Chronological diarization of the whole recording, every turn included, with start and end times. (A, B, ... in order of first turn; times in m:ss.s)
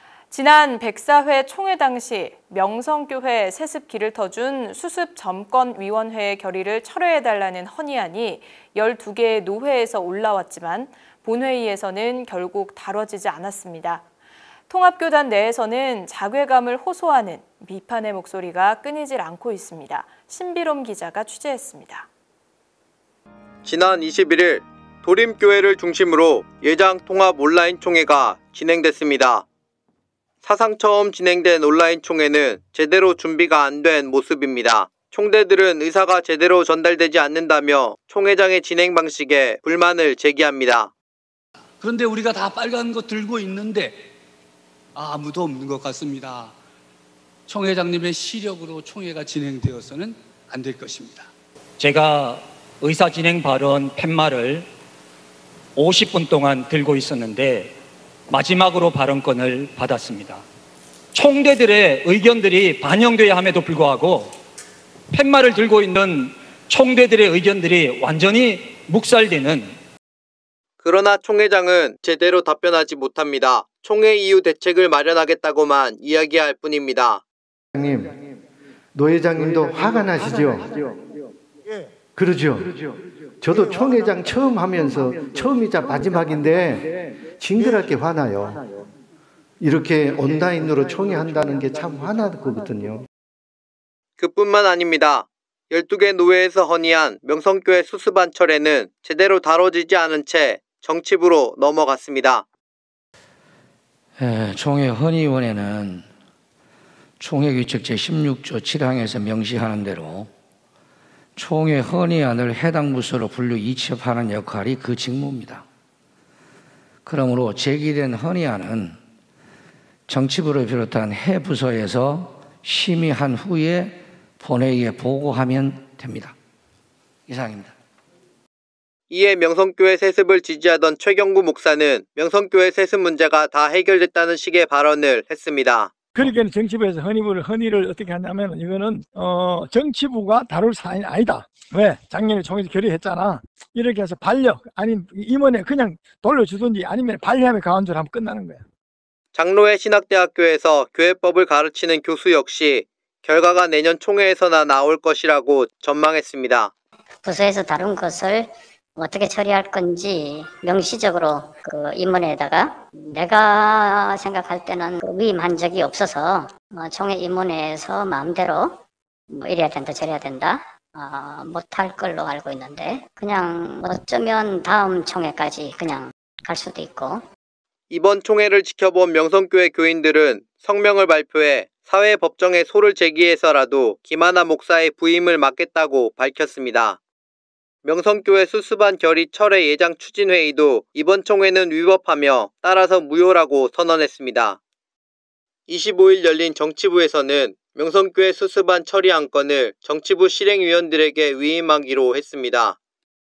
0:00.3-0:14.1 A
0:14.7-0:22.1 A
0:23.6-0:29.4 B
0:30.4-0:40.9 B
0:41.8-0:44.0 C
0:45.0-0:46.5 C
0:47.5-0:51.3 C
0:51.8-0:54.7 D
0:55.8-0:57.8 D
0:58.3-1:00.4 D
1:01.1-1:04.3 D
1:05.1-1:09.8 D
1:10.8-1:17.2 B
1:17.8-1:18.2 E
1:19.0-1:20.8 E
1:22.2-1:28.6 E
1:29.6-1:33.1 E
1:34.2-1:42.5 B
1:44.2-1:46.0 F
1:47.2-1:50.3 F
1:51.4-1:55.7 F
1:57.0-1:59.0 F
2:00.1-2:06.4 F
2:07.3-2:07.7 F
2:09.1-2:15.9 B
2:16.2-2:28.6 G
2:29.3-2:36.7 B
2:37.2-2:48.8 H
2:49.3-2:57.2 H
2:57.9-3:07.0 B
3:07.8-3:14.6 B
3:15.7-3:22.8 B